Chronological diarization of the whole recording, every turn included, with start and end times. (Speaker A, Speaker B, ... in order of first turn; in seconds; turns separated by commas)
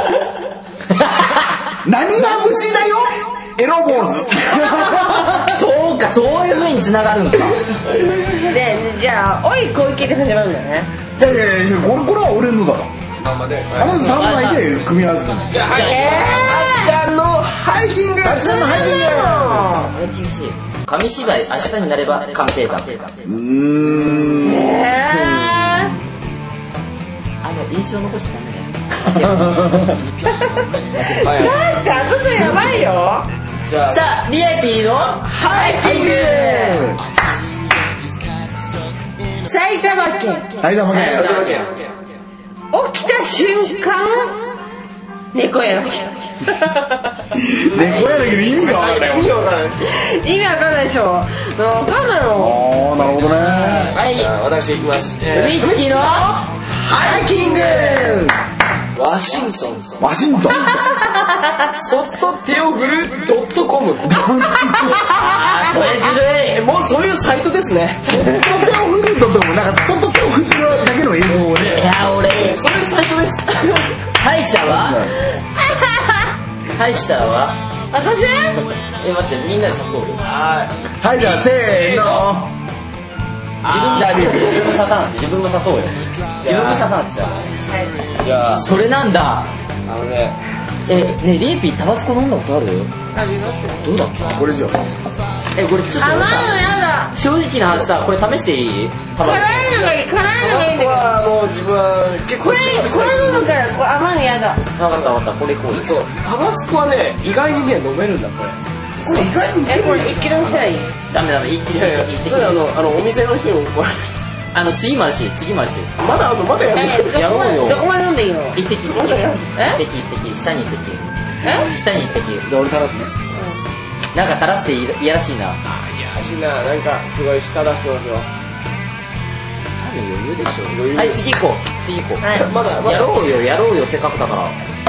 Speaker A: 0.9-1.6, Speaker B: 1.8-5.5, Speaker A: 5.3-7.7, Speaker C: 7.8-8.5, Speaker D: 8.4-10.9, Speaker B: 11.2-12.9, Speaker C: 13.2-14.1, Speaker B: 13.7-15.7, Speaker A: 14.0-14.6, Speaker C: 15.5-18.8, Speaker A: 15.6-16.5, Speaker D: 15.7-16.9, Speaker B: 18.2-19.8, Speaker D: 18.4-19.9, Speaker A: 19.8-23.2, Speaker B: 23.2-25.7, Speaker D: 24.4-25.9, Speaker A: 27.4-29.6, Speaker B: 29.1-30.0, Speaker D: 30.4-33.3, Speaker C: 31.1-31.6, Speaker C: 33.6-34.0, Speaker A: 33.9-36.8, Speaker D: 35.3-36.8, Speaker B: 35.6-37.0, Speaker D: 39.4-40.6, Speaker B: 40.6-41.5, Speaker A: 40.9-41.7, Speaker C: 40.9-41.9, Speaker D: 42.7-44.4, Speaker D: 45.3-47.1, Speaker B: 47.3-49.4, Speaker C: 47.7-49.9, Speaker D: 49.9-52.6, Speaker B: 52.4-54.0, Speaker A: 53.8-54.3, Speaker C: 54.0-55.6, Speaker A: 55.3-56.3, Speaker B: 55.4-58.4, Speaker C: 56.9-57.2, Speaker D: 57.5-58.2, Speaker C: 58.9-60.0, Speaker B: 60.0-60.8, Speaker D: 60.5-61.6, Speaker C: 61.7-64.2, Speaker B: 64.0-65.1, Speaker D: 64.7-65.0, Speaker A: 65.0-66.6, Speaker C: 66.5-68.1, Speaker B: 68.0-71.9, Speaker A: 71.5-72.6, Speaker C: 72.1-74.0, Speaker A: 74.2-75.0, Speaker B: 74.7-75.2, Speaker D: 75.3-76.3, Speaker A: 76.8-77.5, Speaker D: 77.9-78.6, Speaker A: 79.0-80.2, Speaker C: 80.2-80.7, Speaker B: 81.0-82.5, Speaker C: 81.5-82.2, Speaker A: 83.7-87.4, Speaker C: 83.7-84.2, Speaker B: 83.9-84.7, Speaker C: 86.4-86.9, Speaker D: 87.7-88.0, Speaker C: 88.2-88.6, Speaker A: 88.5-89.5, Speaker C: 89.9-90.4, Speaker A: 90.8-92.9, Speaker D: 93.1-93.8, Speaker A: 93.8-94.5, Speaker B: 94.3-94.8, Speaker A: 95.5-99.9, Speaker D: 96.0-97.1, Speaker D: 99.2-101.1, Speaker C: 100.4-103.6, Speaker D: 102.4-104.7, Speaker A: 104.8-106.0, Speaker C: 105.8-109.3, Speaker B: 109.0-110.4, Speaker D: 109.6-110.9, Speaker A: 111.1-113.1, Speaker C: 111.7-114.1, Speaker A: 114.5-115.9, Speaker C: 116.0-117.2, Speaker D: 116.7-119.8, Speaker A: 117.1-117.9, Speaker A: 118.5-122.5, Speaker D: 121.4-121.7, Speaker B: 122.5-123.1, Speaker D: 123.3-123.6, Speaker A: 124.1-125.6, Speaker C: 125.7-128.3, Speaker A: 129.8-134.6, Speaker C: 130.7-131.2, Speaker D: 132.2-132.5, Speaker C: 132.4-133.2